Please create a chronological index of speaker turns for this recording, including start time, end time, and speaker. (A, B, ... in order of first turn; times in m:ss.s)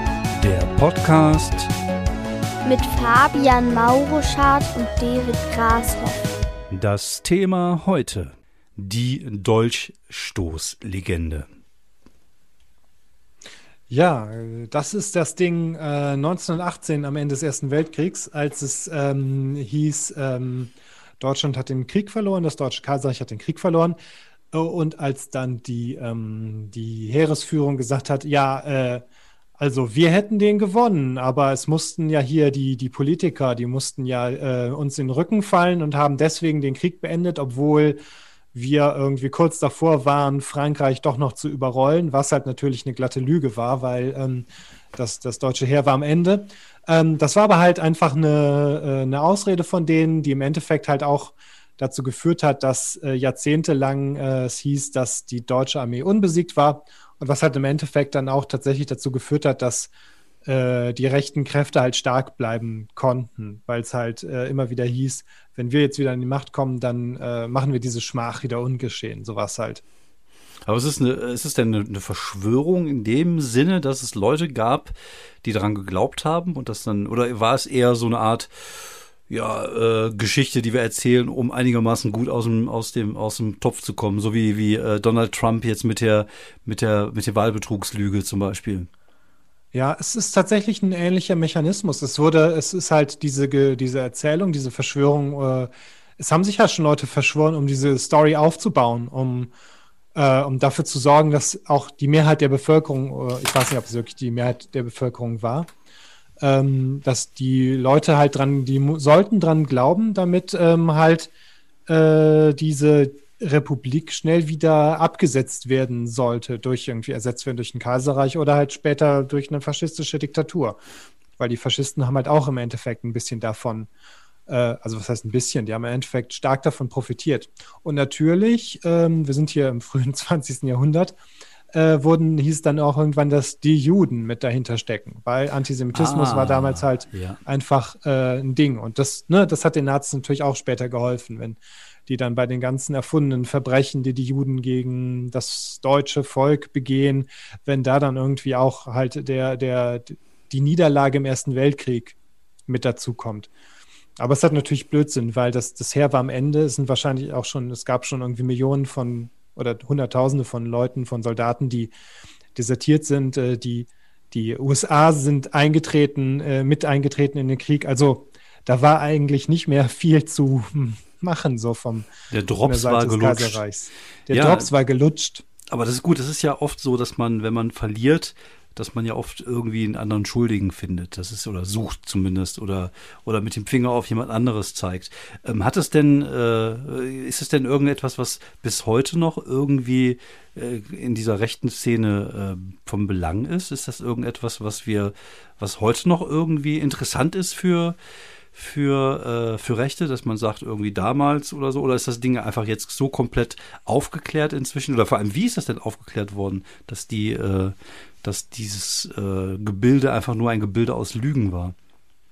0:00.4-0:01.7 A
0:02.6-0:06.2 B
0:06.7-0:11.5 A
0:13.9-0:24.0 C
0:24.5-0:29.0 C
0:29.6-0:38.0 C
0:38.5-0:59.9 C
1:00.4-1:09.8 C
1:10.7-1:18.5 A
1:19.3-1:28.9 A
1:29.7-1:39.5 C
1:40.1-1:45.7 C
1:46.4-1:51.3 C
1:51.9-2:00.8 C
2:01.4-2:03.9 C
2:04.5-2:11.2 C
2:11.7-2:32.2 C
2:15.9-2:17.4 A
2:32.7-2:33.5 C
2:34.2-2:41.9 C
2:42.5-2:52.1 C
2:52.3-2:53.6 A
2:52.6-2:55.4 C
2:54.3-2:54.7 A
2:55.7-3:18.0 A
3:18.5-3:31.7 A